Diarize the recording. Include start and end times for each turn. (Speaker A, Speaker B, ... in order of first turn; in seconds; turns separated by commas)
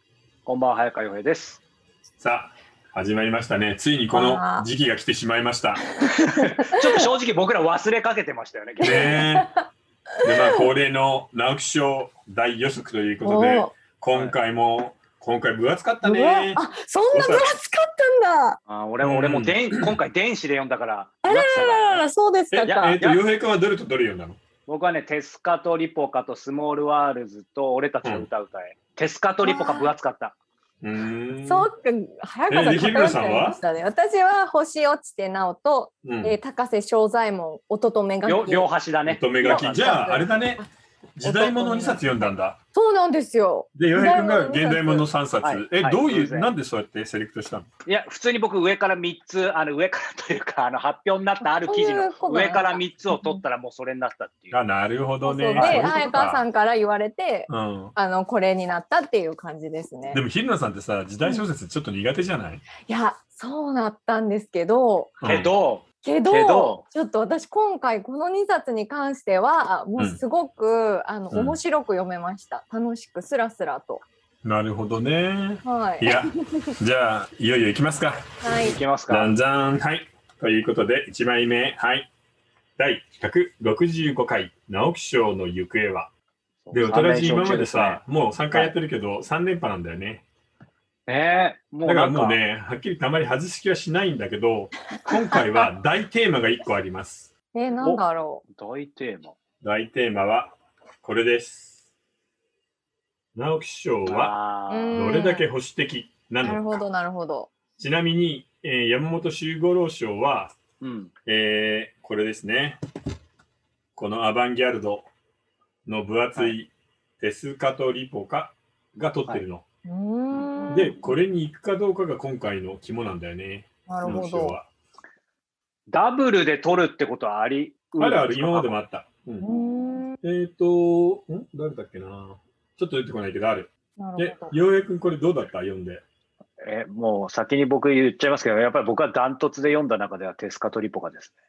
Speaker A: 0.5-1.6, Speaker B: 2.2-5.8, Speaker C: 4.1-4.7, Speaker C: 6.0-7.1, Speaker A: 6.3-9.2, Speaker B: 8.8-9.5, Speaker C: 8.8-9.7, Speaker C: 10.2-10.6, Speaker B: 10.2-17.5, Speaker C: 13.2-13.7, Speaker C: 16.0-18.6, Speaker A: 18.7-22.1, Speaker B: 19.0-20.0, Speaker C: 21.2-22.9, Speaker B: 22.5-24.4, Speaker A: 22.7-23.3, Speaker A: 24.7-30.4, Speaker C: 29.4-29.9, Speaker B: 30.8-31.7, Speaker C: 31.5-38.7, Speaker B: 32.5-33.6, Speaker B: 36.0-36.4, Speaker A: 38.2-40.1, Speaker B: 39.1-40.6, Speaker C: 39.4-40.6, Speaker B: 41.2-42.6, Speaker C: 41.2-45.1, Speaker B: 43.8-47.7, Speaker A: 45.4-46.5, Speaker A: 47.9-54.6, Speaker C: 51.4-53.4, Speaker B: 54.5-56.4, Speaker C: 55.2-60.2, Speaker A: 55.6-56.1, Speaker B: 57.5-58.0, Speaker B: 60.1-62.6, Speaker C: 62.9-65.2, Speaker B: 65.2-65.5, Speaker A: 65.2-66.8, Speaker C: 66.0-74.0, Speaker B: 71.3-71.6, Speaker B: 74.4-78.3, Speaker C: 75.6-76.8, Speaker C: 78.4-78.8, Speaker A: 78.5-79.3, Speaker B: 79.1-82.1, Speaker B: 82.8-86.1, Speaker A: 86.7-88.0, Speaker B: 86.7-90.2, Speaker A: 91.1-92.4, Speaker B: 91.8-97.3, Speaker C: 97.5-98.4, Speaker A: 97.8-99.4, Speaker B: 99.6-101.8, Speaker B: 103.3-104.3, Speaker A: 104.1-105.1, Speaker C: 104.7-105.5, Speaker B: 104.9-106.8, Speaker C: 106.4-107.5, Speaker B: 107.8-110.6, Speaker A: 110.8-111.1, Speaker B: 111.3-112.8, Speaker B: 114.0-115.1, Speaker B: 115.8-119.6, Speaker A: 119.0-119.5, Speaker C: 119.8-121.1, Speaker A: 120.3-121.0, Speaker B: 120.7-124.7, Speaker C: 123.9-124.6, Speaker A: 125.9-128.8, Speaker B: 128.0-129.5, Speaker C: 129.4-130.2, Speaker B: 130.2-136.0, Speaker C: 134.0-134.5, Speaker A: 136.6-141.3